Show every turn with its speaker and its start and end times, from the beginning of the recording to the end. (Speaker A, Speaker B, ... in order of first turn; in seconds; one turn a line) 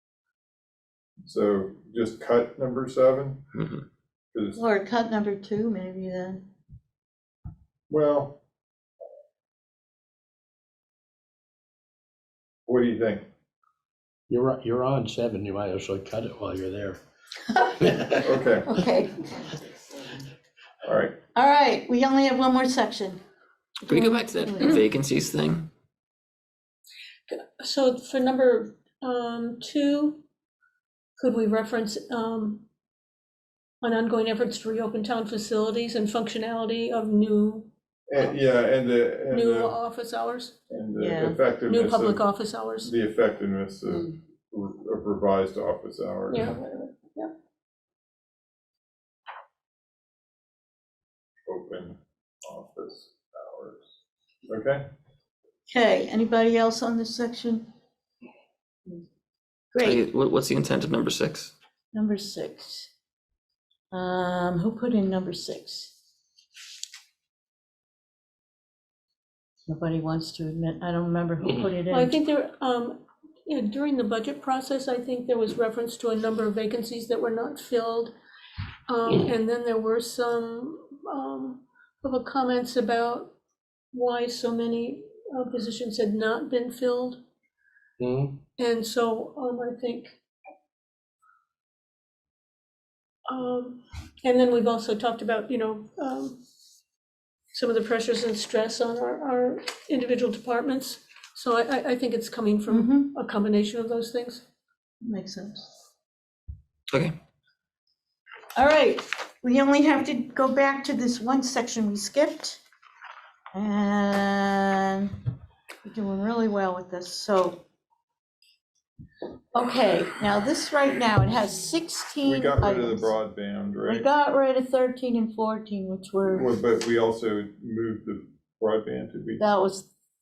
Speaker A: 1.2-3.4
Speaker B: 3.5-3.8
Speaker A: 4.3-4.6
Speaker C: 4.5-6.4
Speaker A: 7.9-8.4
Speaker A: 12.7-13.2
Speaker D: 14.3-17.0
Speaker D: 17.8-18.2
Speaker A: 18.1-18.8
Speaker C: 18.6-19.6
Speaker A: 20.8-21.2
Speaker C: 21.3-23.2
Speaker B: 23.9-25.7
Speaker C: 23.9-24.8
Speaker E: 23.9-24.7
Speaker E: 27.3-30.2
Speaker E: 31.2-32.6
Speaker E: 33.8-37.7
Speaker A: 38.1-39.8
Speaker E: 39.3-40.5
Speaker A: 40.7-46.6
Speaker C: 41.0-41.4
Speaker E: 41.6-42.9
Speaker E: 46.3-47.3
Speaker A: 51.5-53.8
Speaker A: 54.5-54.8
Speaker C: 55.7-57.7
Speaker C: 59.7-60.0
Speaker B: 59.8-61.5
Speaker C: 61.9-62.9
Speaker C: 63.9-65.9
Speaker C: 69.7-72.2
Speaker E: 71.9-78.1
Speaker E: 78.9-83.3
Speaker E: 83.9-87.2
Speaker D: 88.0-88.4
Speaker E: 88.6-90.2
Speaker E: 93.3-96.4
Speaker E: 97.5-104.4
Speaker C: 102.7-103.1
Speaker C: 105.0-105.7
Speaker C: 108.5-112.6
Speaker C: 113.5-115.2
Speaker C: 115.8-117.6
Speaker C: 119.5-123.1
Speaker A: 122.2-124.0
Speaker C: 123.9-126.5
Speaker A: 126.3-129.4
Speaker C: 129.4-129.9